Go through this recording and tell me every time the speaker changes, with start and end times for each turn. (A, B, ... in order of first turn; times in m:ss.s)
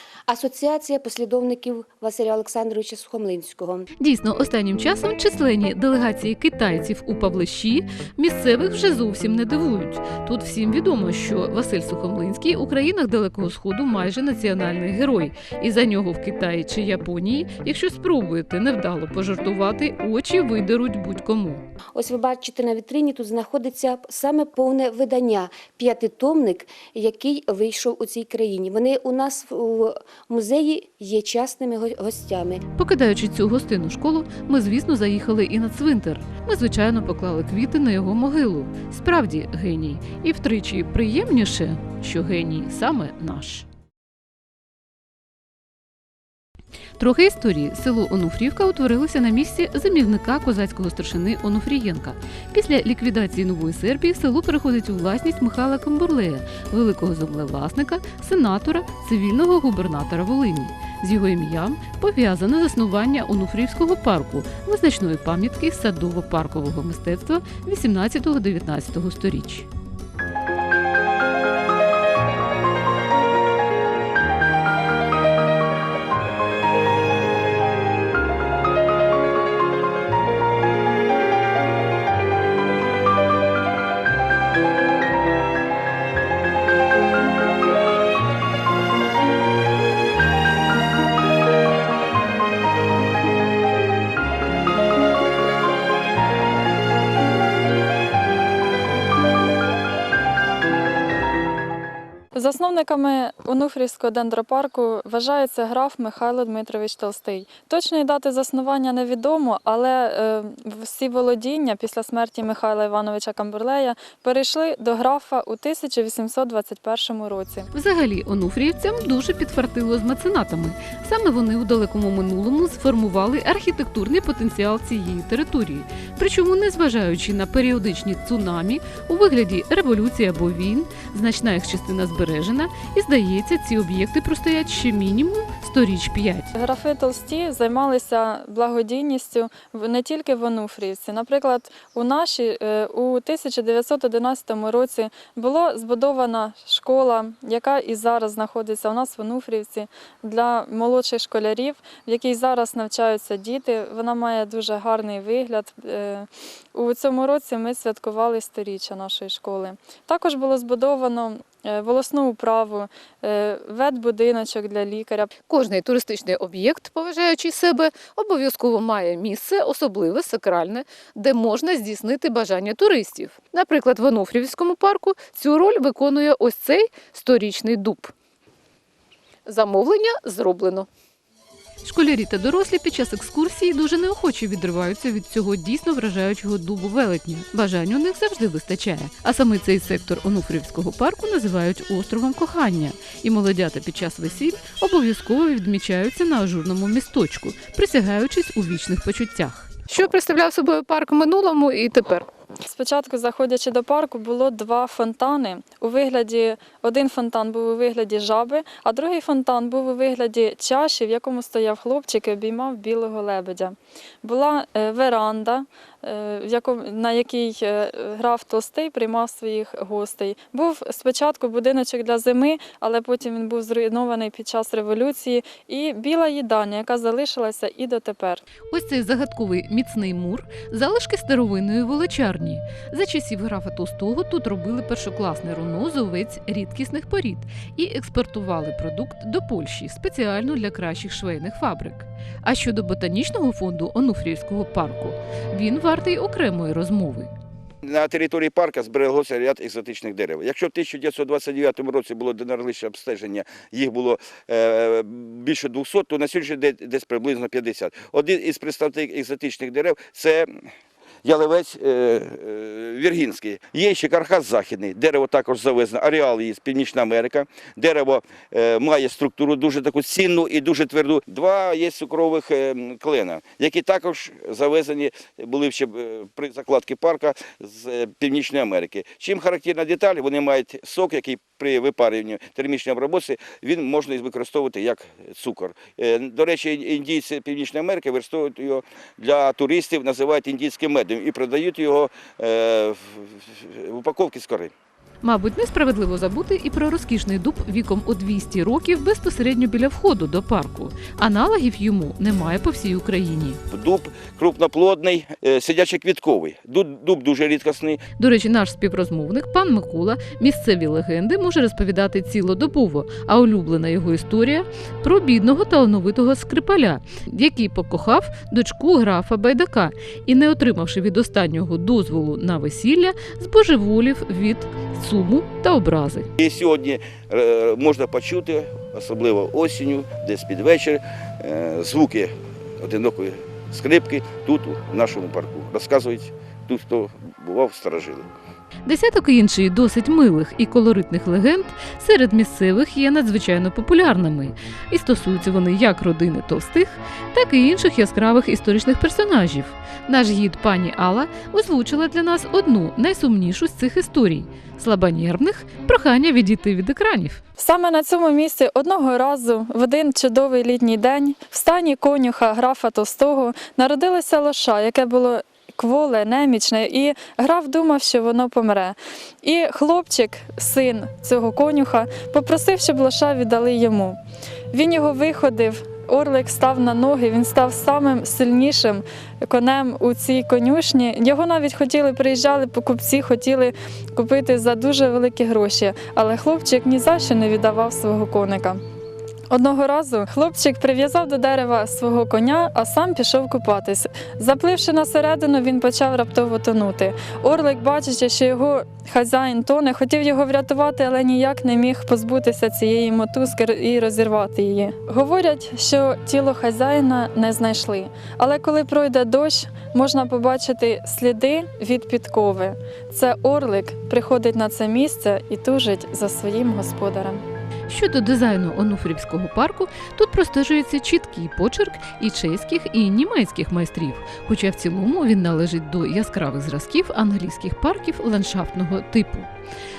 0:00.3-0:03.9 A
0:04.0-0:21.6 B
0:22.0-0:32.6 A
0:32.8-0:43.7 B
0:47.0-1:09.7 B
1:42.3-1:57.7 C
1:57.7-2:16.5 B
2:16.5-2:45.3 C
2:45.5-2:58.1 B
2:59.5-3:00.9 B
3:01.8-3:22.3 B
3:22.6-3:48.4 C
3:48.7-4:07.3 B
4:07.8-4:20.5 D
4:21.2-4:54.7 D
4:55.2-5:03.6 B
5:03.7-5:08.0 D
5:08.2-5:26.3 B
5:26.4-5:32.3 D
5:32.8-5:38.3 D
5:38.8-5:57.4 B
5:57.6-6:14.2 C
6:14.7-6:28.8 C
6:29.5-6:57.4 C
6:57.9-7:09.5 B